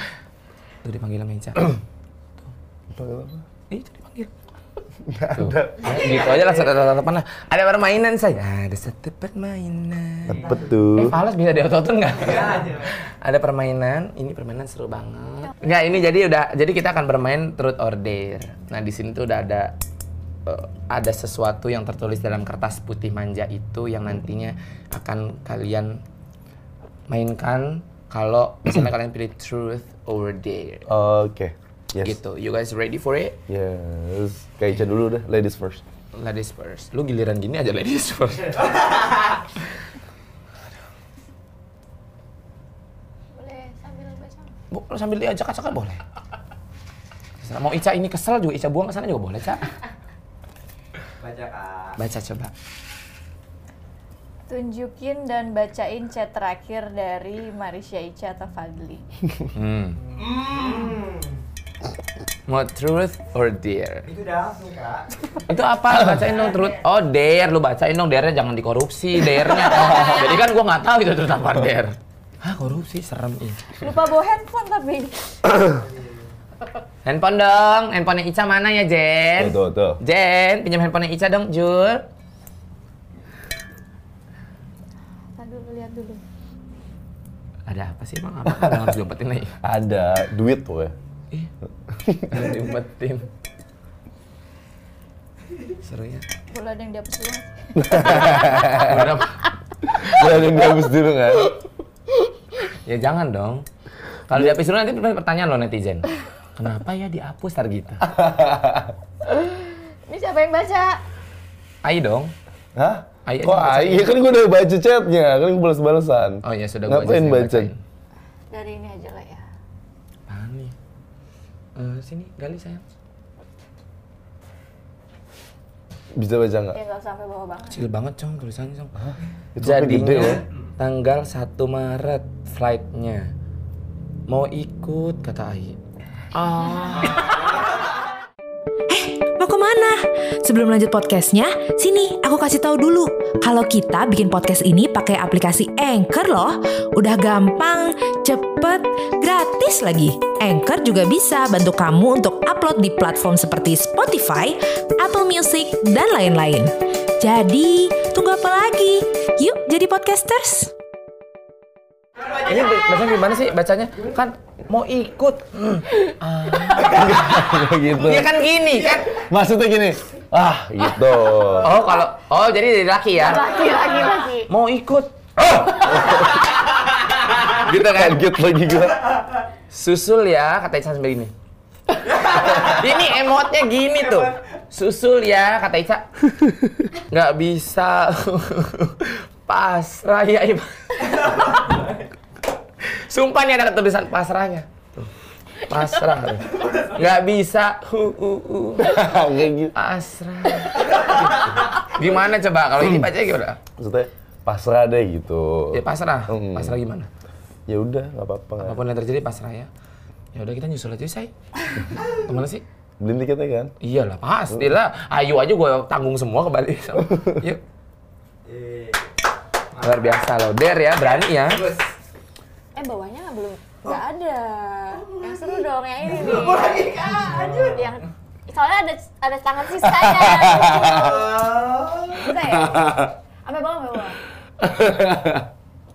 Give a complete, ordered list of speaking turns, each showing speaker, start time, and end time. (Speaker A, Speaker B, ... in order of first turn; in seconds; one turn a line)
Speaker A: 0.8-1.8
Speaker B: 2.9-3.5
Speaker A: 3.7-4.3
Speaker B: 5.0-6.5
Speaker A: 5.3-19.7
Speaker C: 6.0-6.7
Speaker B: 10.3-11.2
Speaker C: 12.2-12.9
Speaker A: 20.4-26.0
Speaker A: 27.1-30.8
Speaker B: 30.9-32.2
Speaker A: 32.0-33.4
Speaker B: 33.5-35.8
Speaker A: 36.1-38.8
Speaker D: 43.3-44.5
Speaker A: 44.7-46.0
Speaker A: 47.4-49.8
Speaker C: 51.2-52.0
Speaker A: 52.0-52.5
Speaker D: 54.5-59.1
Speaker A: 59.5-60.0
Speaker C: 60.0-61.4
Speaker A: 62.5-64.0
Speaker C: 64.0-65.3
Speaker A: 65.5-73.8
Speaker D: 73.8-75.7
Speaker A: 77.0-82.0
Speaker B: 79.4-80.0
Speaker D: 85.4-86.2
Speaker A: 87.7-89.5
Speaker B: 89.6-90.9
Speaker B: 91.9-92.4
Speaker A: 92.3-93.3
Speaker A: 95.8-96.2
Speaker D: 96.5-98.6
Speaker B: 97.8-99.2
Speaker A: 98.1-99.5
Speaker B: 100.0-101.6
Speaker A: 100.0-100.3
Speaker A: 102.7-103.6
Speaker A: 104.3-108.1
Speaker B: 108.0-108.9
Speaker D: 109.3-111.0
Speaker A: 111.8-112.3
Speaker B: 112.8-117.7
Speaker A: 113.2-114.1
Speaker A: 116.4-117.8
Speaker D: 118.5-119.5
Speaker A: 120.3-120.7
Speaker A: 121.8-122.8
Speaker B: 126.1-126.8
Speaker D: 126.7-127.8
Speaker A: 127.7-128.9
Speaker B: 129.0-130.4
Speaker A: 129.6-133.3
Speaker A: 134.3-135.8
Speaker A: 136.3-137.5
Speaker E: 138.9-160.7
Speaker C: 162.2-162.7
Speaker A: 162.3-169.2
Speaker B: 166.8-168.3
Speaker B: 169.1-171.8
Speaker A: 171.6-173.5
Speaker D: 173.2-174.5
Speaker A: 174.5-175.1
Speaker B: 175.4-176.4
Speaker A: 175.9-176.2
Speaker A: 177.5-178.2
Speaker B: 177.7-179.2
Speaker A: 179.7-181.3
Speaker A: 182.0-186.1
Speaker C: 182.1-182.8
Speaker C: 184.0-184.4
Speaker A: 186.9-191.6
Speaker A: 192.8-195.1
Speaker A: 195.6-199.1
Speaker B: 198.8-199.7
Speaker A: 199.7-203.6
Speaker B: 203.8-206.8
Speaker A: 205.7-207.1
Speaker B: 207.7-208.8
Speaker A: 208.6-209.7
Speaker A: 210.3-212.6
Speaker B: 213.0-213.7
Speaker A: 213.8-217.6
Speaker B: 217.0-217.4
Speaker C: 218.4-219.1
Speaker C: 219.8-220.3
Speaker A: 219.8-221.7
Speaker C: 221.0-221.9
Speaker D: 222.8-231.4
Speaker C: 226.1-228.0
Speaker B: 229.8-231.0
Speaker C: 230.8-232.3
Speaker D: 232.1-234.2
Speaker B: 232.5-233.1
Speaker B: 234.6-235.5